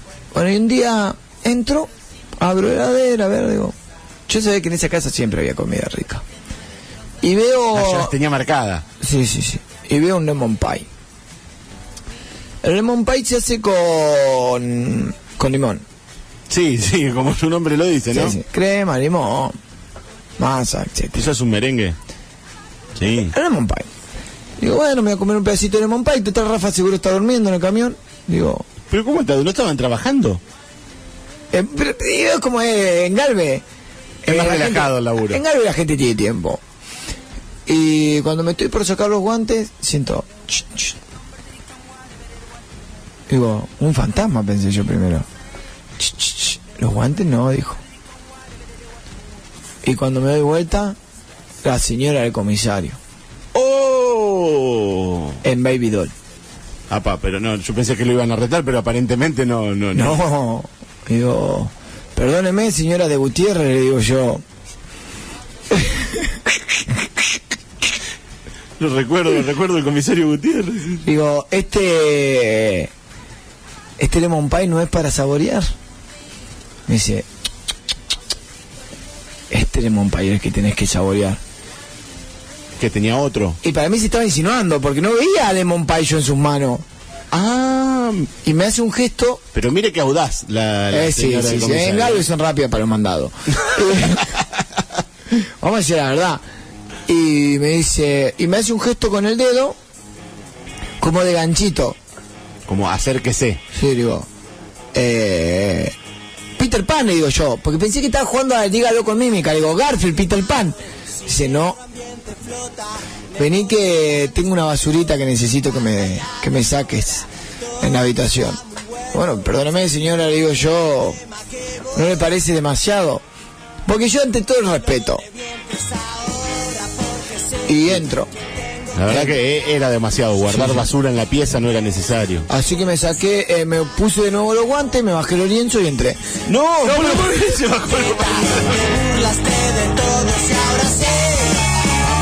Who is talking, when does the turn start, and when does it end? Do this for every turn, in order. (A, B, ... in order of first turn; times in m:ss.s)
0:00.3-0:03.7 A
0:04.3-0:06.2 A
0:07.2-0:08.1 A
0:07.7-0:08.8 B
0:09.0-0:10.8 A
0:12.6-0:15.8 A
0:16.5-0:18.4 B
0:18.1-0:19.6 A
0:20.4-0:21.3 A
0:21.1-0:22.0 B
0:23.0-0:23.3 B
0:23.2-0:23.8 A
0:24.6-0:28.6 A
0:28.9-0:30.4 B
0:31.5-0:33.6 A
0:34.2-0:36.6 A
0:34.3-0:35.4 B
0:37.6-0:40.9 A
0:43.3-0:45.2 A
0:46.0-0:47.8 A
0:49.8-0:51.0 A
0:51.6-0:53.0 A
0:53.5-0:55.4 B
0:55.4-0:56.1 A
0:56.9-1:00.2 B
0:59.9-1:04.4 A
1:05.7-1:06.4 A
1:08.8-1:11.1 B
1:11.0-1:12.9 A
1:14.0-1:15.7 A
1:16.9-1:17.2 A
1:19.5-1:21.4 A
1:22.8-1:23.6 B
1:23.6-1:26.8 A
1:27.3-1:28.3 B
1:28.4-1:29.4 A
1:29.5-1:32.2 B
1:30.9-1:34.4 A
1:35.4-1:36.4 A
1:37.1-1:39.8 A
1:41.0-1:42.0 A
1:42.7-1:43.6 B
1:43.7-1:44.3 A
1:44.9-1:45.9 A
1:46.6-1:51.8 A
1:53.4-1:57.3 A
1:57.8-1:58.6 A
1:59.1-2:01.2 A
2:01.9-2:03.2 A
2:03.8-2:05.2 A
2:07.6-2:08.3 A
2:08.9-2:12.5 B
2:09.1-2:09.4 A
2:10.5-2:10.9 A
2:12.5-2:17.6 A
2:16.4-2:19.2 B
2:19.0-2:21.6 C